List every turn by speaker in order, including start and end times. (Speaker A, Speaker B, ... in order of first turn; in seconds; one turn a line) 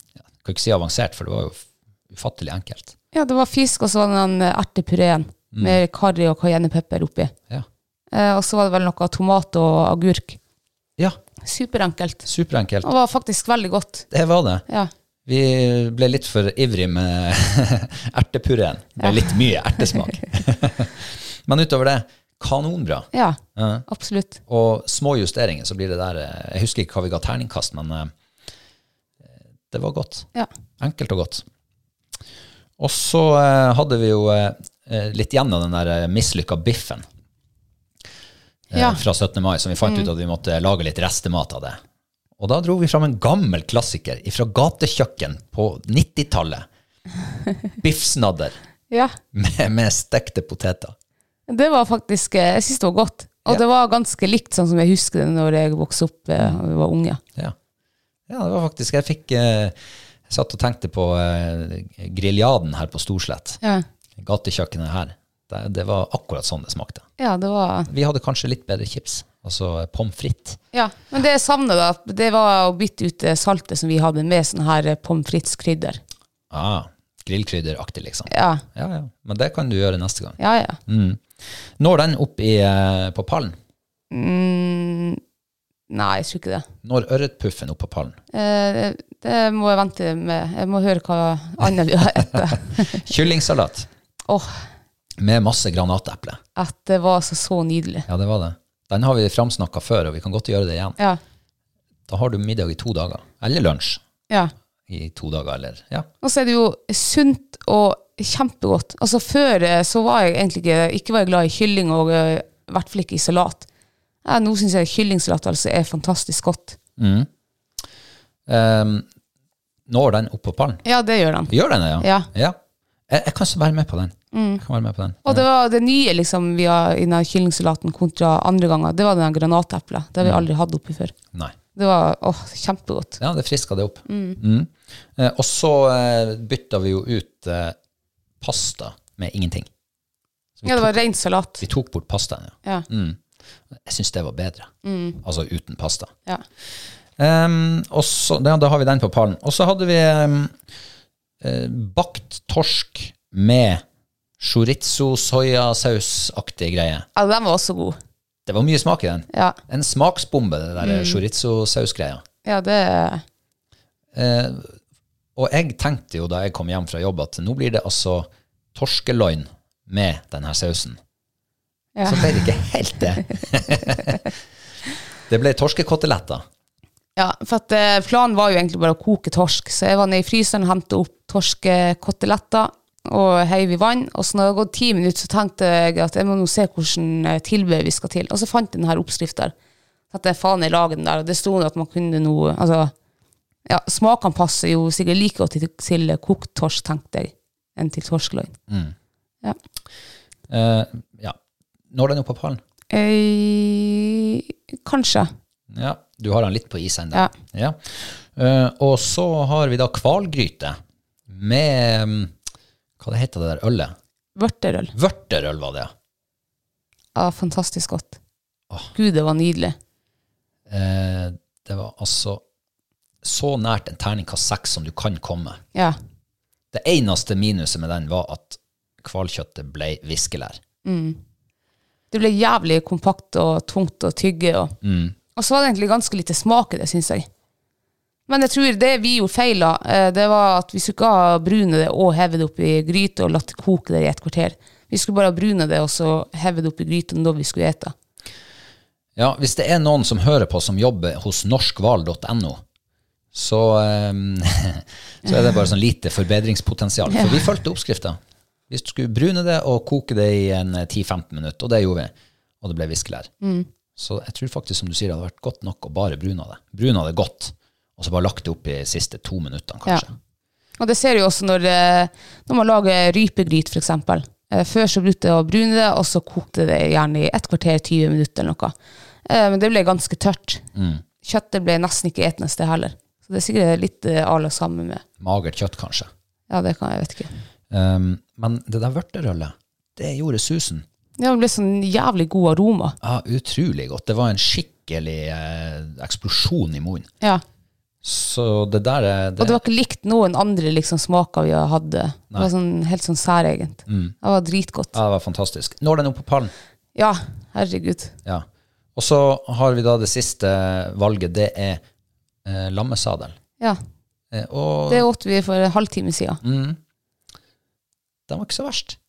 Speaker A: 0.4-2.9
Speaker B: 3.1-7.3
Speaker A: 5.5-5.8
Speaker B: 8.1-10.4
Speaker B: 11.4-12.3
Speaker A: 12.3-12.9
Speaker B: 12.8-14.1
Speaker A: 14.1-14.6
Speaker A: 15.3-23.9
Speaker B: 19.0-19.3
Speaker B: 23.1-24.4
Speaker A: 24.5-28.1
Speaker A: 29.7-30.3
Speaker A: 30.8-31.4
Speaker A: 32.8-37.0
Speaker A: 38.7-41.8
Speaker B: 38.7-39.0
Speaker B: 39.8-40.1
Speaker A: 42.4-46.7
Speaker A: 47.8-48.6
Speaker B: 48.9-49.1
Speaker A: 49.3-50.9
Speaker B: 51.5-57.2
Speaker A: 58.3-59.8
Speaker A: 60.3-63.6
Speaker A: 64.2-67.0
Speaker B: 67.2-67.9
Speaker A: 67.9-70.6
Speaker B: 70.7-76.0
Speaker A: 76.5-83.6
Speaker B: 78.3-78.6
Speaker B: 80.4-80.8
Speaker B: 84.1-85.2
Speaker B: 85.9-86.7
Speaker A: 86.8-88.2
Speaker B: 88.3-93.1
Speaker A: 92.1-93.9
Speaker B: 94.3-94.6
Speaker A: 95.2-96.4
Speaker B: 96.6-98.1
Speaker A: 98.1-101.0
Speaker A: 102.1-104.0
Speaker A: 104.9-106.1
Speaker B: 106.2-113.7
Speaker B: 114.2-116.8
Speaker A: 117.0-117.3
Speaker A: 118.5-119.1
Speaker A: 119.9-120.8
Speaker B: 120.8-122.3
Speaker A: 121.5-122.6
Speaker A: 123.1-125.4
Speaker B: 124.3-124.6
Speaker B: 125.2-131.1
Speaker A: 130.2-130.4
Speaker B: 131.7-133.2
Speaker A: 133.2-137.8
Speaker B: 134.1-134.4
Speaker A: 138.4-139.7
Speaker A: 140.6-140.9
Speaker B: 140.6-141.6
Speaker A: 141.6-143.2
Speaker A: 143.7-144.7
Speaker B: 144.8-145.2
Speaker A: 145.2-146.1
Speaker A: 147.2-150.5
Speaker A: 151.4-153.8
Speaker A: 154.4-157.1
Speaker B: 157.2-158.0
Speaker A: 158.4-162.2
Speaker B: 160.8-161.2
Speaker B: 162.4-163.2
Speaker A: 164.1-164.8
Speaker A: 165.4-171.0
Speaker B: 171.9-172.4
Speaker A: 172.1-174.2
Speaker A: 175.3-176.4
Speaker B: 177.2-189.5
Speaker B: 190.1-192.9
Speaker B: 193.7-198.5
Speaker A: 198.7-198.9
Speaker A: 200.5-201.4
Speaker A: 201.9-202.6
Speaker B: 202.9-205.3
Speaker A: 205.7-210.8
Speaker A: 211.3-212.3
Speaker A: 213.0-213.9
Speaker B: 214.4-214.9
Speaker A: 214.9-215.9
Speaker B: 217.1-218.2
Speaker B: 218.9-219.8
Speaker A: 220.7-222.4
Speaker A: 223.2-225.6
Speaker A: 226.7-230.6
Speaker B: 230.8-231.2
Speaker B: 232.1-234.7
Speaker A: 234.8-235.1
Speaker B: 235.4-237.3
Speaker B: 238.3-247.9
Speaker A: 249.2-252.6
Speaker A: 253.3-258.2
Speaker B: 257.1-257.4
Speaker A: 258.7-263.3
Speaker B: 263.4-263.7
Speaker A: 263.9-270.1
Speaker B: 270.8-278.7
Speaker B: 279.3-280.6
Speaker A: 280.7-281.0
Speaker B: 281.2-285.0
Speaker A: 285.2-286.1
Speaker B: 286.5-287.3
Speaker A: 287.7-290.8
Speaker B: 291.2-293.0
Speaker A: 293.0-297.1
Speaker A: 298.0-299.6
Speaker B: 299.4-305.0
Speaker A: 303.9-304.1
Speaker A: 304.9-306.5
Speaker B: 306.9-308.1
Speaker A: 308.2-311.8
Speaker A: 312.4-313.4
Speaker A: 314.3-315.1
Speaker B: 314.9-316.4
Speaker A: 316.4-316.8
Speaker A: 318.3-319.0